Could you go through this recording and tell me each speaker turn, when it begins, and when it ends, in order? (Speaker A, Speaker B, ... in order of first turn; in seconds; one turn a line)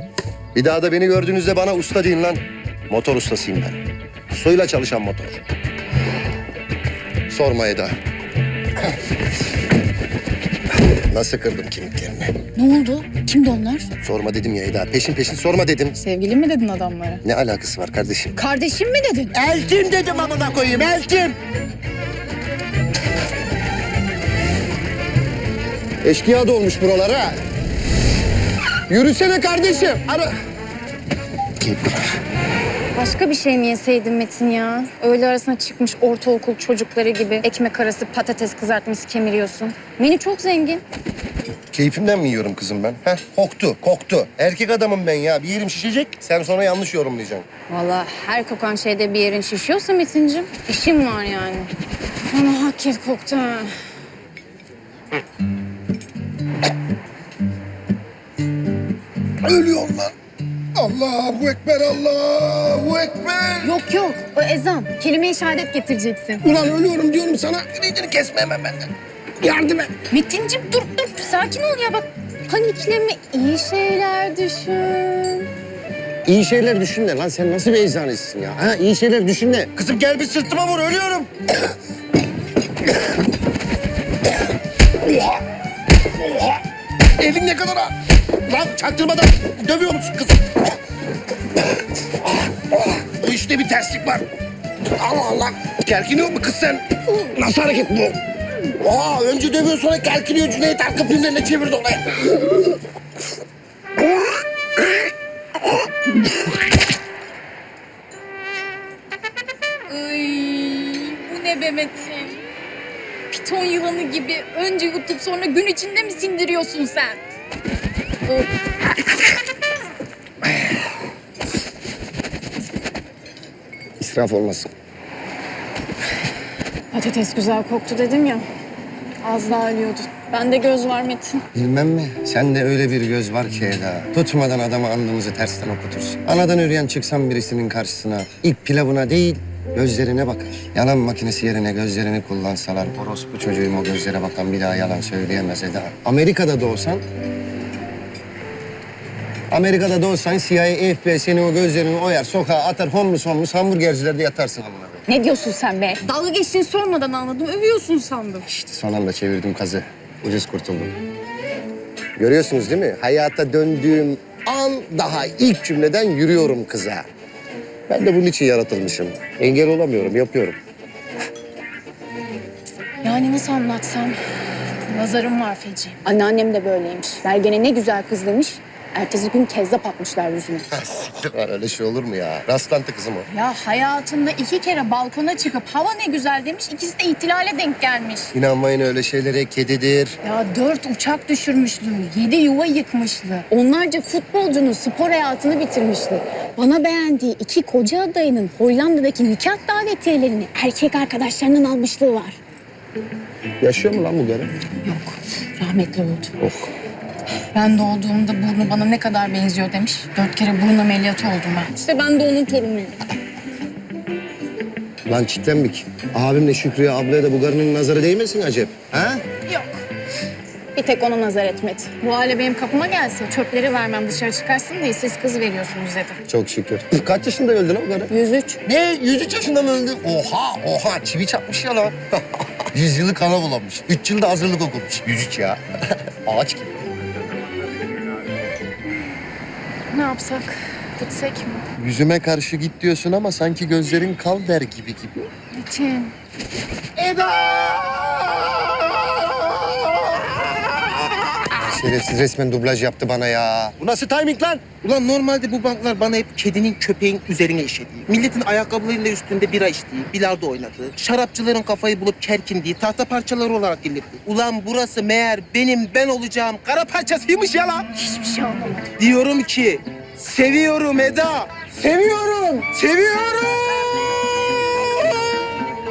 Speaker A: 0.5-5.4
Speaker A: 7.3-7.9
Speaker A: 10.7-12.4
Speaker B: 12.5-13.9
Speaker A: 14.0-16.0
Speaker B: 16.0-17.2
Speaker A: 17.2-18.4
Speaker B: 18.4-19.3
Speaker A: 19.3-21.4
Speaker A: 26.0-27.4
Speaker A: 28.9-30.3
Speaker A: 31.6-32.1
Speaker B: 32.9-40.8
Speaker A: 41.7-47.4
Speaker B: 47.7-51.7
Speaker B: 52.2-53.7
Speaker A: 59.4-60.1
Speaker A: 60.8-63.7
Speaker B: 63.6-66.4
Speaker A: 66.4-69.9
Speaker B: 70.1-75.5
Speaker A: 76.2-81.7
Speaker A: 85.0-85.4
Speaker A: 86.1-86.6
Speaker A: 87.2-87.9
Speaker A: 88.5-90.8
Speaker A: 92.2-94.2
Speaker A: 94.9-98.2
Speaker A: 98.8-102.7
Speaker A: 104.0-104.2
Speaker B: 109.9-112.4
Speaker B: 113.3-117.2
Speaker A: 124.0-124.7
Speaker B: 126.9-128.4
Speaker B: 129.2-131.4
Speaker A: 131.5-147.0
Speaker A: 149.5-155.0
Speaker B: 155.1-158.4
Speaker A: 158.4-160.9
Speaker A: 162.2-167.1
Speaker A: 167.9-170.6
Speaker B: 173.0-174.2
Speaker B: 174.9-180.7
Speaker A: 180.7-183.3
Speaker B: 183.3-188.3
Speaker A: 188.3-190.2
Speaker B: 190.2-202.4
Speaker A: 203.6-204.5
Speaker B: 204.8-206.3
Speaker A: 206.4-206.7
Speaker B: 207.5-213.0
Speaker A: 215.1-219.2
Speaker B: 219.5-219.8
Speaker B: 220.7-226.2
Speaker A: 226.3-228.1
Speaker B: 228.1-228.6
Speaker A: 228.6-236.9
Speaker B: 239.9-241.7
Speaker A: 241.8-245.3
Speaker B: 245.5-246.1
Speaker A: 246.9-254.6
Speaker C: 254.8-267.9
Speaker B: 268.0-268.9
Speaker C: 269.0-271.7
Speaker A: 271.9-272.4
Speaker C: 272.7-273.9